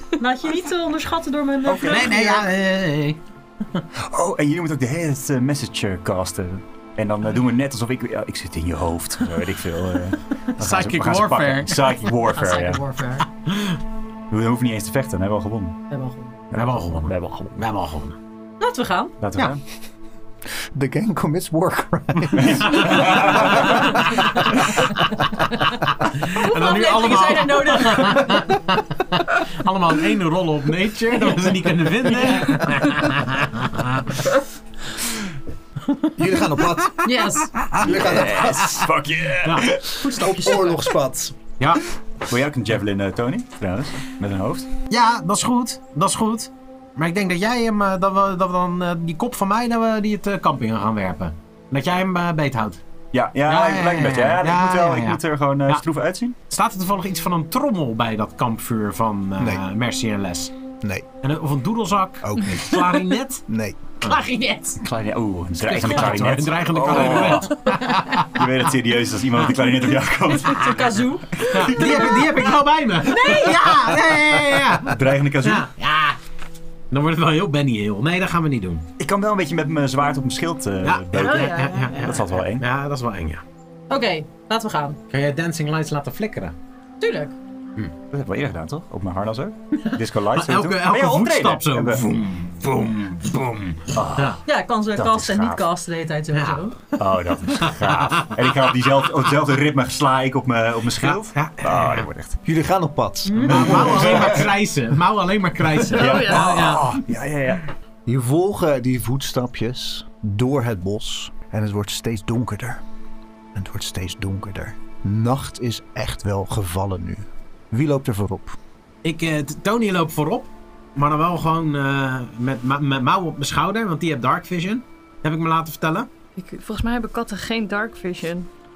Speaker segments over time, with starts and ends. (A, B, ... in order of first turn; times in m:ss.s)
0:00.2-0:02.4 A
0:01.6-0:02.2 B
0:01.8-0:03.2 C
0:04.0-0:12.8 B
0:10.6-0:11.9 C
0:12.3-0:13.3 A
0:13.4-0:13.8 C
0:14.3-0:15.8 B
0:15.9-0:16.4 A
0:16.5-0:17.6 B
0:16.5-0:18.2 C
0:18.6-0:19.2 A
0:19.2-0:19.6 B
0:20.7-0:23.8 D
0:22.4-0:24.0 B
0:22.9-0:23.5 C
0:26.3-0:34.1 C
0:26.3-0:28.5 A
0:36.1-0:37.2 D
0:37.0-0:37.6 A
0:37.6-0:37.8 C
0:37.8-0:38.9 D
0:37.8-0:40.1 B
0:39.4-0:39.8 C
0:40.0-0:40.8 A
0:40.0-0:41.5 D
0:41.6-0:41.8 C
0:42.3-0:44.7 B
0:44.9-0:52.8 C
0:53.1-0:56.4 B
0:53.4-0:55.8 C
0:56.5-1:00.5 C
0:59.4-0:59.6 D
1:00.8-1:01.0 D
1:01.2-1:03.4 C
1:02.2-1:02.9 D
1:03.5-1:04.0 D
1:04.0-1:04.8 A
1:04.8-1:11.0 B
1:05.6-1:08.4 C
1:10.5-1:12.3 A
1:11.5-1:16.2 C
1:11.5-1:12.0 B
1:13.0-1:13.9 A
1:14.9-1:15.7 B
1:16.9-1:18.9 C
1:19.0-1:22.6 B
1:20.8-1:23.4 C
1:21.1-1:22.2 E
1:23.9-1:25.0 A
1:25.1-1:26.6 C
1:27.0-1:27.3 A
1:28.1-1:32.2 B
1:30.3-1:34.4 C
1:33.3-1:34.4 B
1:34.4-1:37.0 A
1:34.9-1:35.7 B
1:36.3-1:36.6 C
1:37.0-1:42.4 B
1:37.6-1:38.5 C
1:41.0-1:42.1 C
1:42.4-1:44.5 D
1:43.3-1:43.7 A
1:43.4-1:46.9 C
1:43.7-1:44.3 B
1:45.9-1:47.7 B
1:45.9-1:46.5 E
1:48.0-1:52.8 D
1:53.5-1:58.6 D
1:59.0-2:06.1 C
2:06.4-2:08.5 E